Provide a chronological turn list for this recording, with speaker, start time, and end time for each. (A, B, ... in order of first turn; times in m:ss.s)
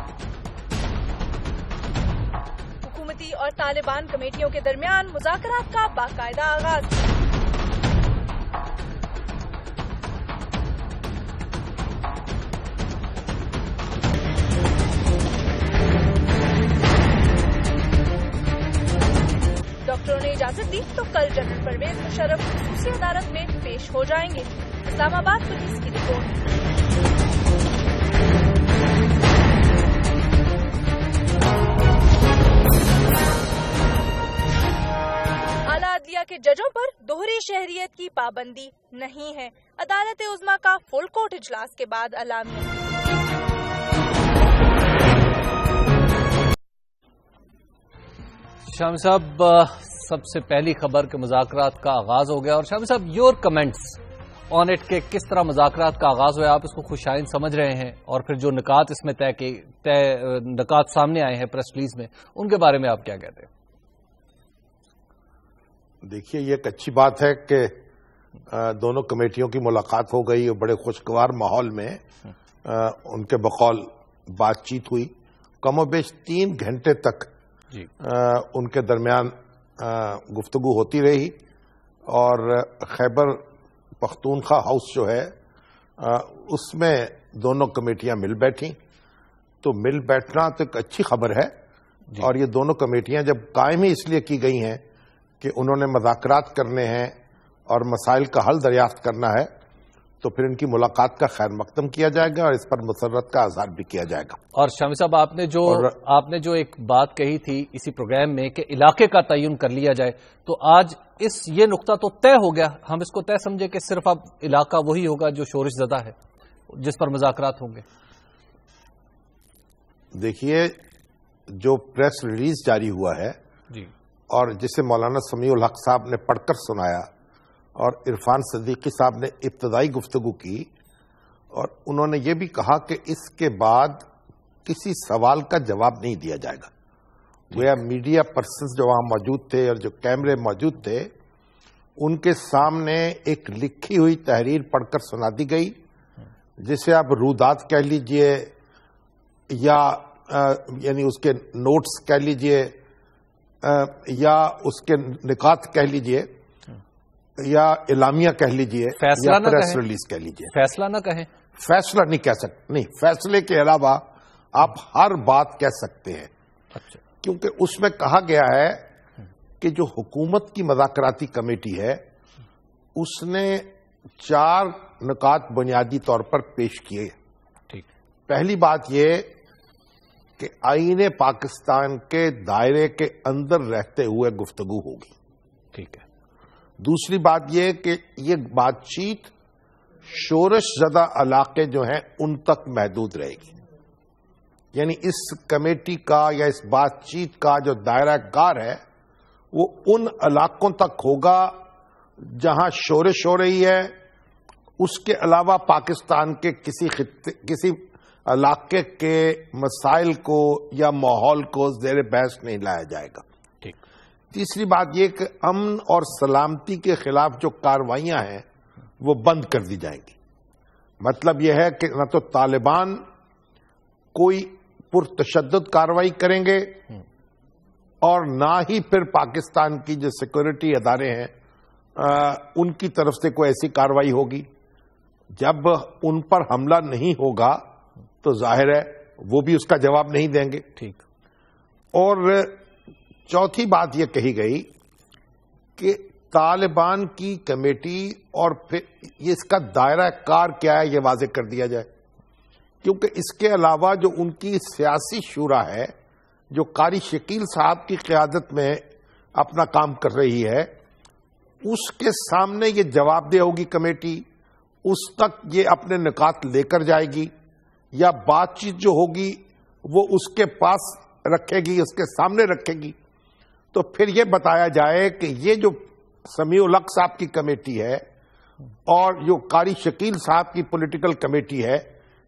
0:02.8-0:06.9 A
0:19.8-0:26.4 A
0:35.7-0:42.8 A
0:48.7-0:54.0 B
0:54.5-1:03.5 B
1:06.0-1:07.7 C
1:08.5-1:12.0 C
1:12.6-1:15.1 C
1:15.6-1:17.3 C
1:18.0-1:21.4 C
1:22.1-1:23.4 C
1:24.0-1:25.3 C
1:26.0-1:28.8 C
1:29.6-1:31.5 C
1:32.2-1:34.8 C
1:35.4-1:37.2 C
1:37.7-1:39.5 C
1:40.2-1:44.4 C
1:44.5-1:56.1 B
1:45.6-1:45.9 C
1:56.7-1:57.8 B
2:00.1-2:00.7 C
2:01.5-2:03.4 C
2:04.3-2:07.1 C
2:07.8-2:10.7 C
2:11.5-2:14.1 C
2:14.6-2:16.7 C
2:17.5-2:21.1 C
2:22.0-2:25.8 C
2:26.6-2:28.5 C
2:29.5-2:32.7 C
2:33.6-2:36.3 C
2:37.4-2:40.5 C
2:39.0-2:39.8 B
2:40.5-2:41.3 B
2:41.6-2:46.3 C
2:47.2-2:48.8 C
2:49.6-2:52.0 C
2:53.0-2:57.1 C
2:58.3-2:59.3 C
3:00.4-3:05.1 C
3:05.7-3:06.0 B
3:06.8-3:09.3 C
3:10.0-3:13.5 C
3:14.7-3:18.8 C
3:19.5-3:21.6 C
3:22.2-3:23.9 C
3:24.8-3:33.2 C
3:34.3-3:38.4 C
3:39.0-3:40.1 C
3:41.0-3:43.0 C
3:44.1-3:46.8 C
3:48.0-3:51.3 C
3:52.0-3:54.5 C
3:55.3-3:57.6 C
3:58.2-4:00.7 C
4:01.9-4:02.6 C
4:03.3-4:04.7 C
4:05.8-4:11.9 C
4:12.8-4:15.9 C
4:16.5-4:18.8 C
4:19.3-4:20.7 C
4:21.6-4:24.2 C
4:24.8-4:27.3 C
4:27.9-4:32.9 C
4:33.7-4:38.0 C
4:38.9-4:41.9 C